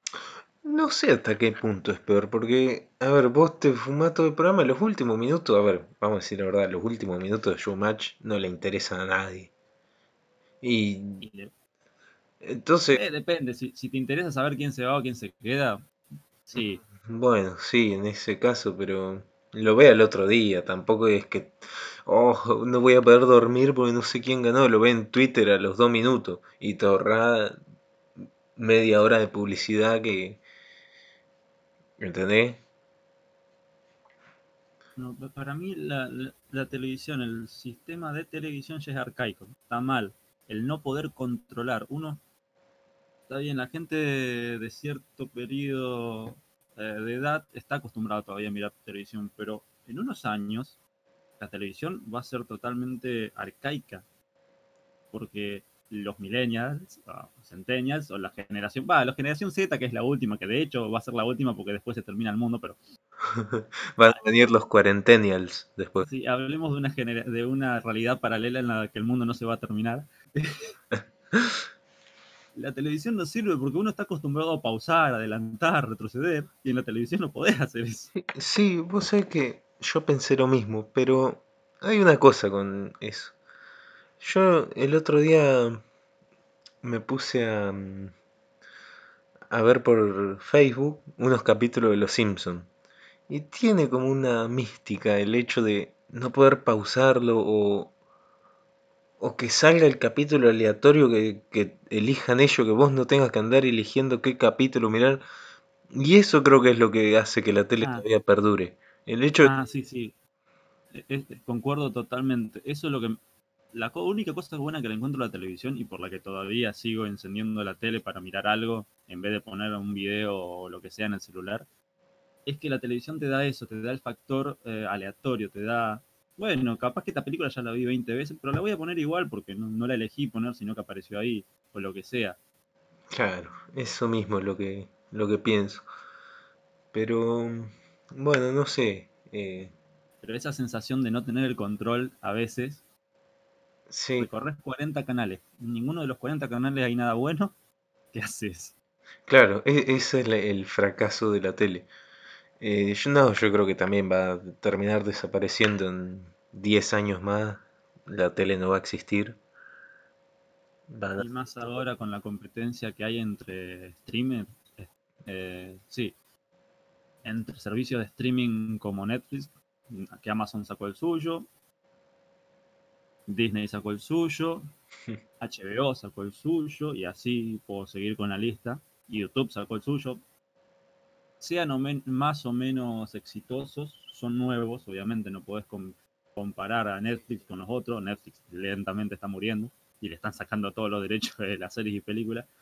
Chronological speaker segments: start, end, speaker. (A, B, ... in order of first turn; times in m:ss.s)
0:00.6-0:09.5 A
0:10.6-0:11.2 A
0:11.2-0:11.5 B
0:12.4-0:13.0 A
0:12.9-0:15.8 B
0:16.4-0:16.8 B
0:16.5-0:27.6 A
0:28.6-0:30.4 A
0:32.0-0:32.6 A
0:35.0-0:42.2 B
0:43.3-0:50.8 B
0:51.4-0:54.0 B
0:55.1-1:02.8 B
1:03.2-1:06.0 A
1:06.0-1:10.7 B
1:10.9-1:11.6 A
1:12.5-1:18.1 B
1:18.3-1:23.3 A
1:24.2-1:25.8 A
1:26.8-1:28.1 A
1:29.5-1:32.7 A
1:33.3-1:37.9 A
1:39.2-1:45.2 A
1:45.9-1:49.5 A
1:47.8-1:48.0 B
1:49.4-1:50.1 B
1:50.9-1:53.2 B
1:53.7-2:01.6 B
2:02.4-2:12.4 B
2:13.1-2:15.8 A
2:16.9-2:19.7 A
2:20.2-2:22.8 B
2:23.9-2:24.3 A
2:24.2-2:27.6 B
2:28.1-2:28.7 B
2:29.3-2:31.9 A
2:32.6-2:39.4 A
2:40.9-2:41.3 A
2:41.2-2:46.1 B
2:47.2-2:51.5 B
2:53.3-2:54.7 B
2:55.4-3:00.2 B
3:01.4-3:12.5 B